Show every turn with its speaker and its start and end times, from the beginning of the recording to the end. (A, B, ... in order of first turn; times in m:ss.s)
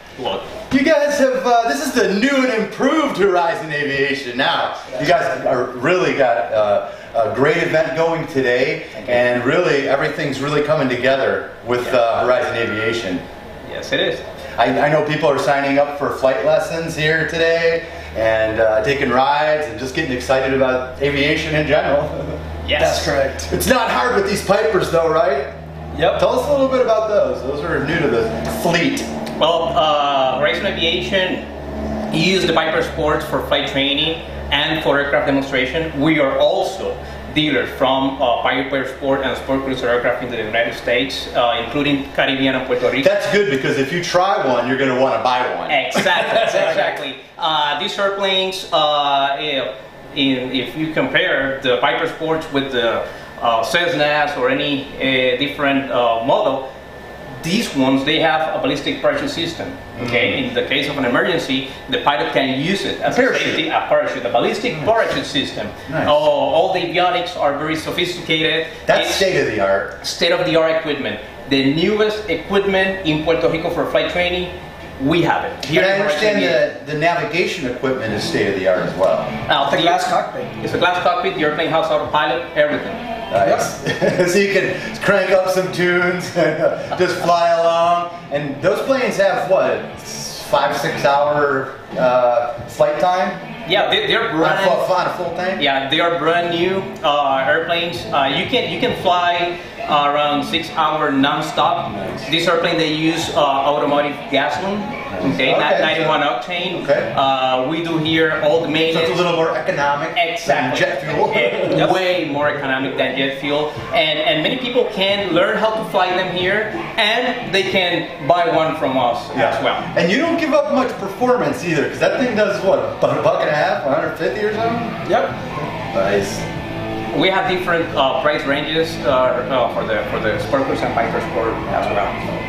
0:00.2-0:00.5 A
0:00.7-0:13.2 B
0:13.6-0:14.2 A
0:14.6-0:22.4 B
0:22.6-0:23.1 A
0:22.8-0:23.5 C
0:23.4-0:25.5 B
0:25.9-0:26.2 C
0:26.1-0:29.1 B
0:29.4-0:31.4 A
0:32.1-0:43.1 A
0:43.0-0:46.4 B
0:45.7-0:56.6 A
0:46.5-0:46.8 C
0:57.4-1:09.3 A
1:00.0-1:00.4 B
1:03.1-1:03.7 B
1:05.9-1:06.2 B
1:08.9-1:09.9 B
1:10.0-1:16.6 A
1:15.6-1:19.3 B
1:19.5-1:20.1 A
1:19.6-1:20.5 C
1:20.6-1:23.0 A
1:23.3-1:33.4 B
1:23.4-1:23.7 C
1:33.6-1:34.9 A
1:34.4-1:35.6 B
1:35.6-1:49.2 A
1:41.9-1:42.3 B
1:45.1-1:47.1 B
1:48.8-1:51.9 B
1:50.1-1:59.8 A
1:59.3-2:05.0 B
2:05.0-2:05.3 C
2:05.9-2:06.4 B
2:07.1-2:12.2 A